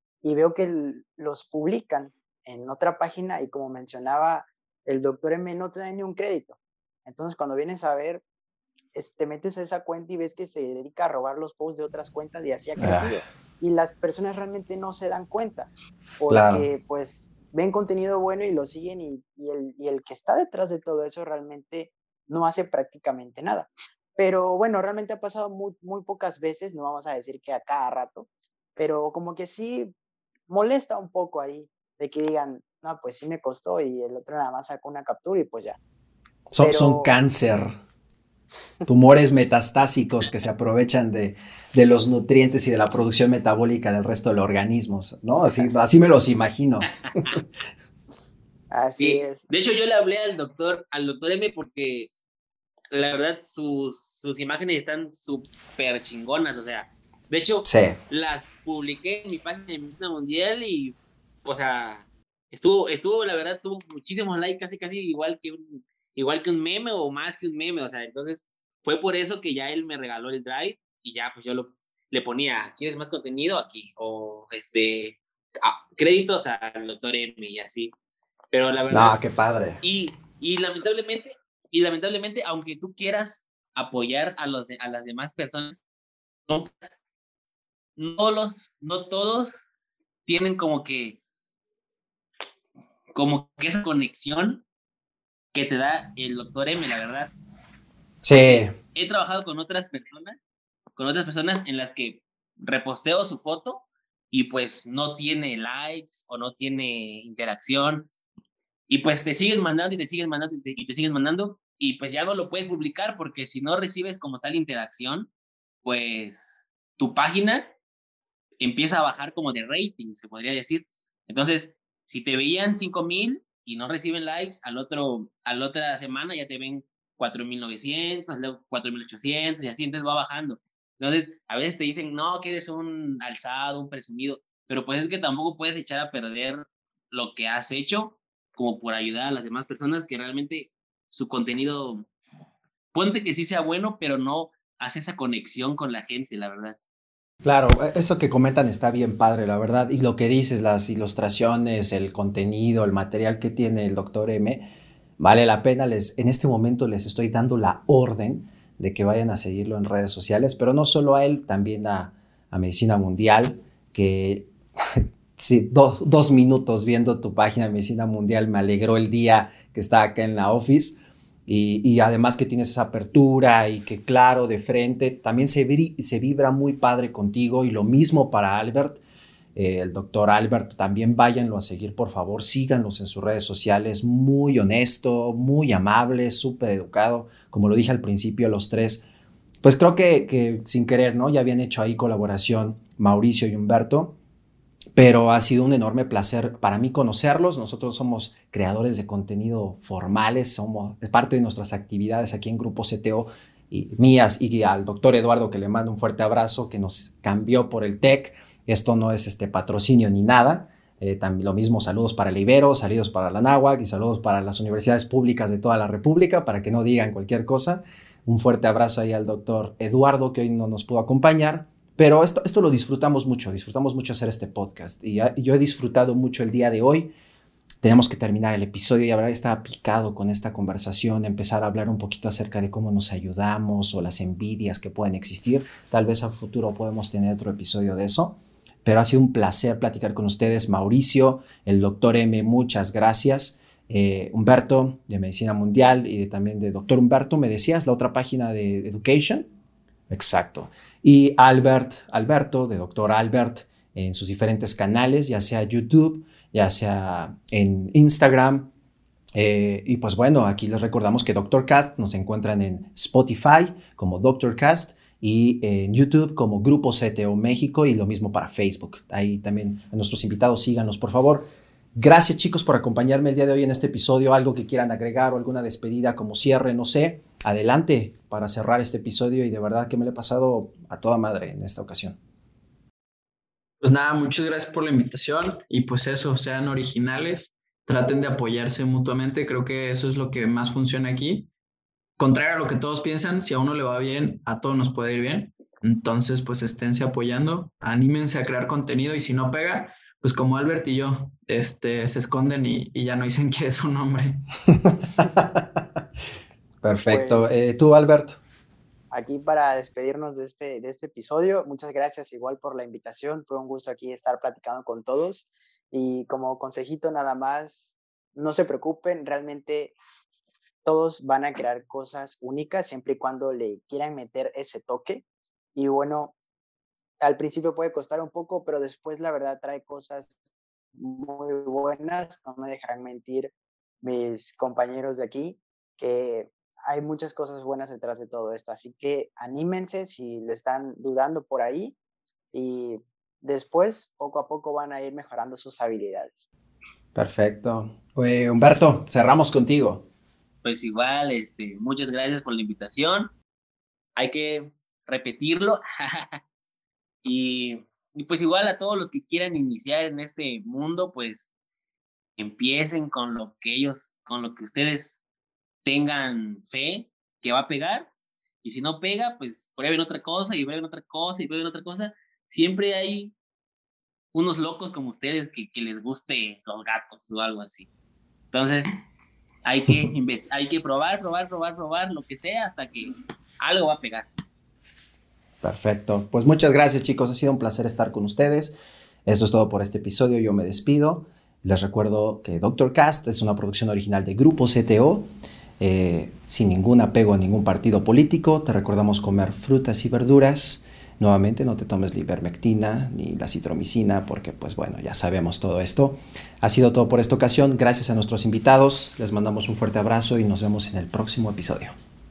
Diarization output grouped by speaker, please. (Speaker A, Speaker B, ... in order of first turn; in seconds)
Speaker A: 0.2-8.2, 8.9-29.9, 30.5-35.8, 36.6-37.1, 48.7-49.4, 307.1-307.6, 309.1-319.9, 320.9-325.2, 325.8-326.3, 327.2-330.3, 331.0-342.0, 342.5-346.5
Speaker B: 12.8-13.2, 16.3-16.6, 36.5-37.8, 38.9-47.2, 57.7-58.0, 78.9-79.8, 98.2-98.7, 147.4-179.0, 179.6-189.1, 189.6-194.2, 194.9-227.1, 227.8-249.5, 250.1-258.7, 259.4-282.2, 304.7-305.6, 306.8-308.4, 347.1-350.1, 385.6-388.8, 389.3-395.3, 395.8-411.9
Speaker C: 49.0-52.1, 52.9-77.9, 78.5-79.2, 79.8-85.8, 88.0-89.7, 90.3-91.2, 93.1-94.7, 95.5-97.3, 98.3-100.4, 101.0-108.1, 108.9-115.3, 115.8-117.7, 118.6-142.1, 142.9-146.8, 350.6-353.3, 354.2-356.4, 357.2-361.5, 362.4-365.2, 365.8-368.1, 368.6-373.3, 374.3-377.9, 378.5-378.9, 379.6-384.3
Speaker D: 283.8-291.5, 292.2-304.5